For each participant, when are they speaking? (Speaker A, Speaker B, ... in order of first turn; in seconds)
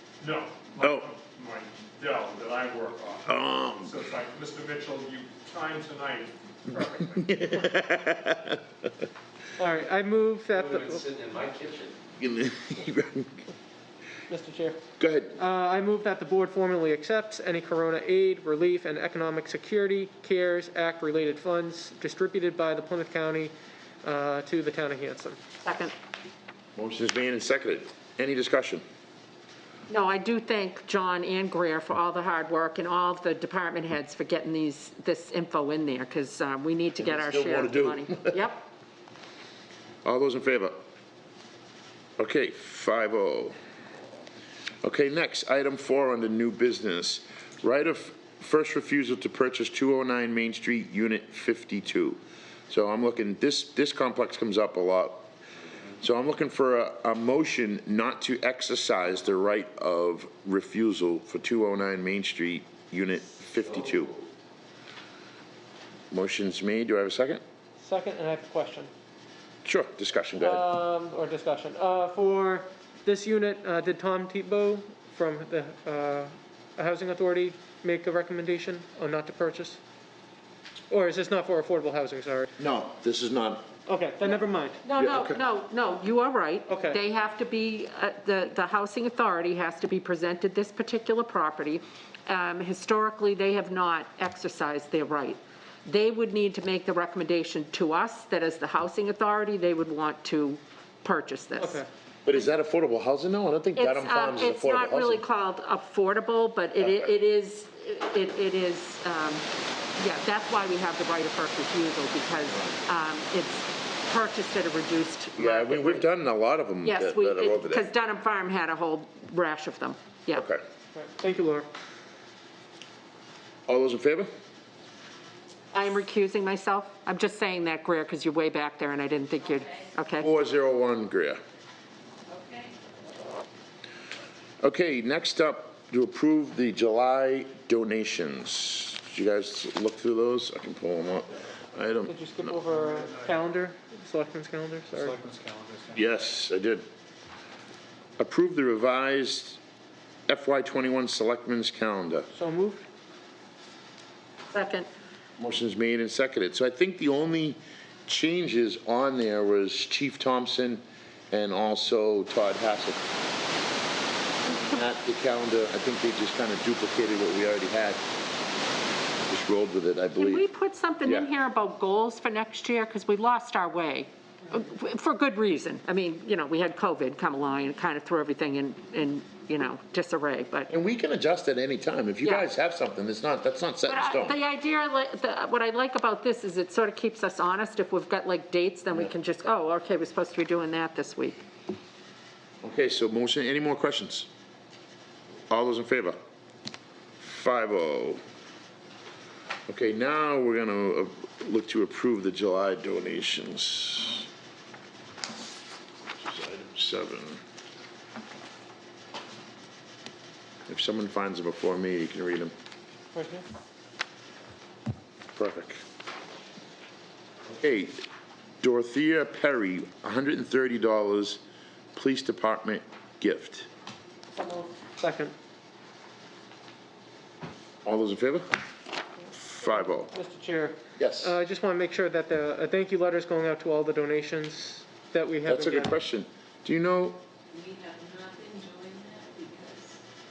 Speaker A: 0.2-6.3
Speaker B: 0.8-1.1, 3.3-4.0, 6.7-8.6, 12.2-13.4, 15.0-15.4, 26.8-28.8, 37.0-38.4, 40.0-40.8, 42.2-43.5, 44.8-55.3, 56.0-64.2, 66.1-67.4, 69.7-70.7, 82.6-83.7, 85.0-85.4, 102.2-105.2, 106.8-107.1, 115.4-117.9, 120.3-120.6, 123.7-124.3, 130.2-131.4, 134.6-142.6, 145.9-146.9, 148.2-149.6, 150.3-152.3, 155.4-163.0, 164.7-168.0, 169.3-170.4, 171.0-171.3, 180.7-184.4, 192.6-194.3, 195.5-196.2, 197.2-198.2, 199.7-204.3, 206.2-207.4, 210.7-212.5, 215.4-215.8, 217.6-218.0, 218.6-221.4, 221.9-223.7, 227.8-228.5, 229.3-230.1, 231.0-231.3, 235.5-237.2
Speaker C: 6.7-7.1, 9.6-11.1, 14.3-14.8, 15.3-25.4, 67.8-68.9, 70.4-79.8, 80.9-82.5, 83.9-84.8, 86.7-87.0, 101.6-101.9, 120.9-121.7, 142.1-145.2, 152.3-152.8, 213.1-213.5, 224.3-225.3, 229.6-236.0
Speaker D: 10.5-12.0, 145.1-146.0
Speaker E: 25.6-25.9, 29.9-38.7, 84.8-101.8, 103.8-109.5, 110.0-116.1, 116.8-120.5, 125.7-130.3, 154.5-154.9, 164.5-164.8, 170.2-180.7, 182.2-182.5, 183.9-191.4
Speaker F: 129.4-129.9, 132.3-132.8, 237.5-240.0